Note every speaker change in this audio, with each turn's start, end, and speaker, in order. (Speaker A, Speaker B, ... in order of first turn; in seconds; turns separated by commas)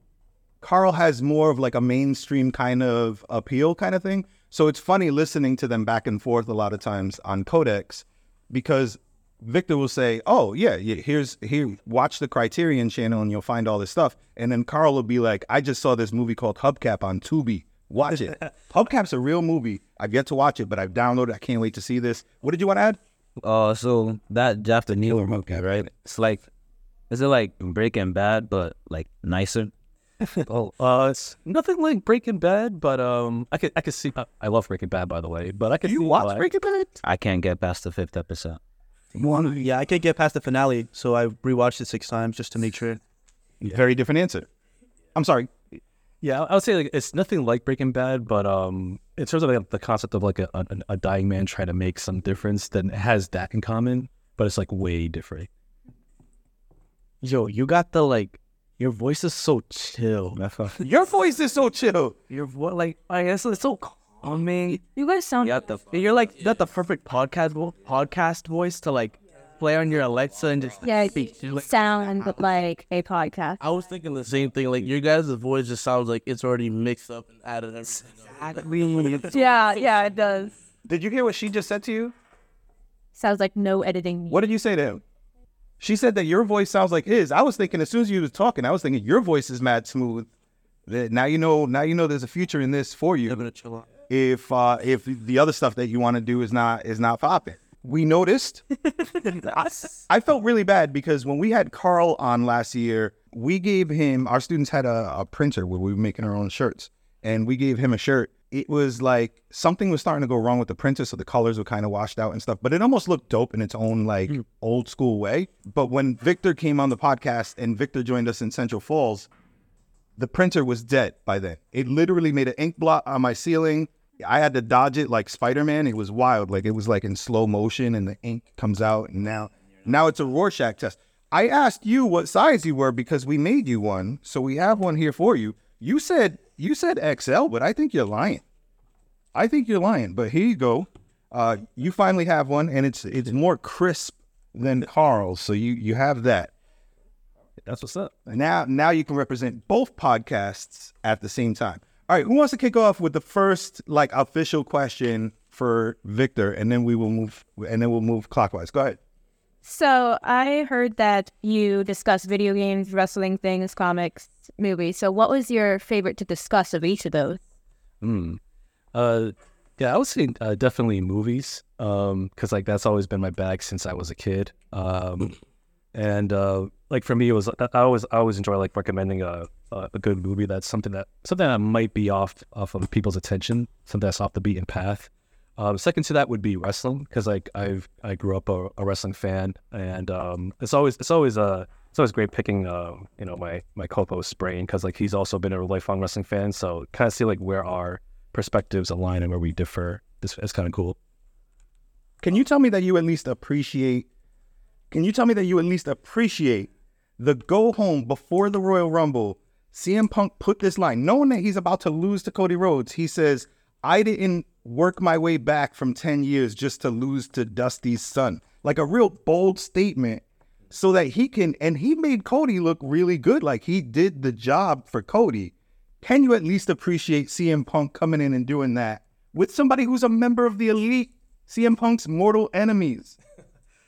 Speaker A: 0.6-23.0, Speaker B: 23.4-26.4, Speaker B: 27.1-29.7, Speaker C: 30.4-36.9, Speaker A: 35.9-36.9, Speaker B: 37.0-38.6, Speaker A: 39.1-39.7, Speaker D: 39.6-43.0, Speaker A: 43.6-44.5, Speaker A: 45.1-45.5, Speaker C: 46.2-55.5, Speaker D: 57.2-60.4, Speaker A: 60.8-62.2, Speaker D: 62.3-64.8, Speaker E: 65.0-65.7, Speaker B: 65.5-65.8, Speaker D: 65.9-71.6, Speaker E: 70.8-73.6, Speaker F: 73.6-79.3, Speaker E: 79.3-80.5, Speaker A: 80.8-82.2, Speaker E: 83.2-84.4, Speaker A: 84.3-85.0, Speaker A: 85.8-90.3, Speaker A: 90.9-93.4, Speaker D: 93.3-93.8, Speaker A: 94.1-98.6, Speaker D: 99.2-99.9, Speaker A: 99.6-119.3, Speaker A: 120.2-138.4, Speaker A: 139.3-146.5, Speaker C: 147.6-148.1, Speaker A: 148.3-159.0, Speaker E: 159.6-167.4, Speaker C: 168.0-168.4, Speaker C: 168.9-175.4, Speaker C: 175.9-201.0, Speaker A: 202.2-204.1, Speaker A: 204.9-233.2